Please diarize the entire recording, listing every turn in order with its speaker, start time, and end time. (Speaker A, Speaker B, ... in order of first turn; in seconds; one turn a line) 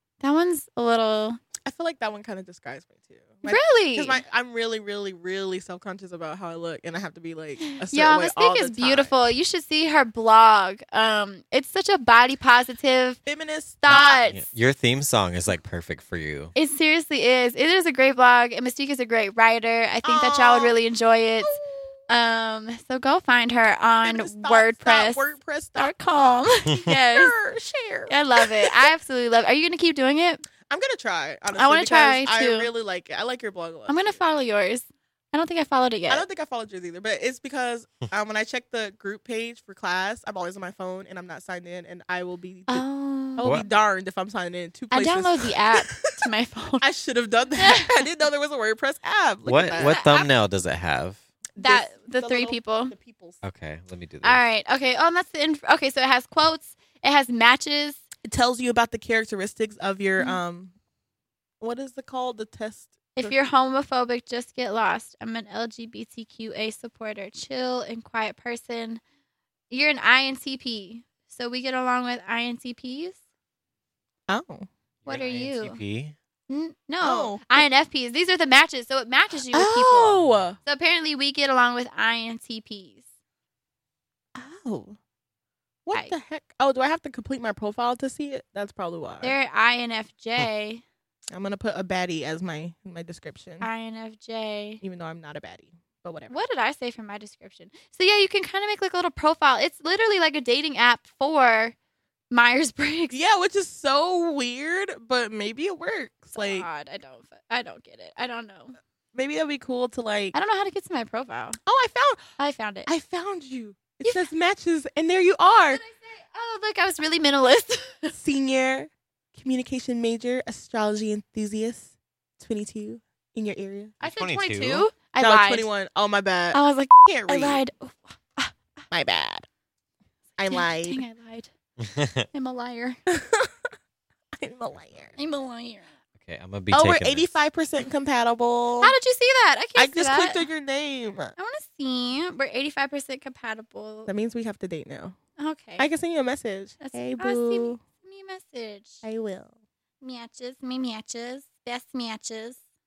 Speaker A: 0.2-1.4
Speaker B: 1.6-9.2
Speaker A: 3.4-4.2
Speaker A: 7.8-13.2
Speaker B: 13.2-14.3
Speaker A: 13.8-14.4
Speaker C: 13.9-16.5
Speaker A: 16.5-21.6
Speaker B: 20.0-20.8
Speaker B: 21.4-21.9
Speaker A: 22.1-27.3
Speaker B: 24.0-25.9
Speaker B: 26.9-28.8
Speaker A: 28.1-30.5
Speaker B: 30.7-34.2
Speaker A: 31.5-32.7
Speaker A: 33.9-36.2
Speaker B: 36.1-42.8
Speaker A: 42.7-43.6
Speaker B: 43.4-46.1
Speaker A: 44.9-46.8
Speaker B: 46.8-50.0
Speaker A: 47.6-48.0
Speaker C: 49.5-51.2
Speaker A: 49.8-50.3
Speaker B: 51.6-53.4
Speaker A: 51.6-52.9
Speaker C: 53.4-54.4
Speaker A: 54.2-58.0
Speaker B: 58.2-60.7
Speaker B: 61.6-63.4
Speaker A: 63.1-69.0
Speaker A: 69.7-73.2
Speaker B: 74.3-74.7
Speaker C: 75.0-76.1
Speaker A: 75.0-75.8
Speaker A: 76.5-83.0
Speaker B: 77.0-77.6
Speaker B: 79.5-80.6
Speaker B: 84.3-85.0
Speaker B: 85.8-89.3
Speaker A: 89.2-90.8
Speaker B: 91.3-93.7
Speaker A: 93.6-94.8
Speaker B: 94.8-96.4
Speaker A: 96.3-101.7
Speaker A: 102.3-103.1
Speaker B: 103.1-106.7
Speaker A: 106.3-108.8
Speaker B: 109.1-110.3
Speaker A: 110.3-111.6
Speaker B: 111.7-112.2
Speaker A: 112.4-112.9
Speaker B: 112.8-115.8
Speaker A: 115.7-118.1
Speaker B: 118.1-124.0
Speaker A: 124.0-125.7
Speaker C: 124.0-124.8
Speaker B: 125.2-127.6
Speaker A: 126.5-128.6
Speaker B: 128.9-129.5
Speaker B: 130.4-131.0
Speaker A: 130.5-131.5
Speaker C: 131.8-132.3
Speaker A: 132.3-133.0
Speaker B: 133.1-133.5
Speaker B: 134.3-135.1
Speaker A: 135.2-135.9
Speaker C: 136.2-137.3
Speaker B: 136.7-138.9
Speaker A: 138.8-140.5
Speaker B: 139.8-141.3
Speaker A: 141.4-144.1
Speaker B: 144.1-145.2
Speaker A: 145.4-145.9
Speaker B: 145.8-147.8
Speaker A: 146.8-149.0
Speaker B: 149.0-149.5
Speaker A: 150.0-152.6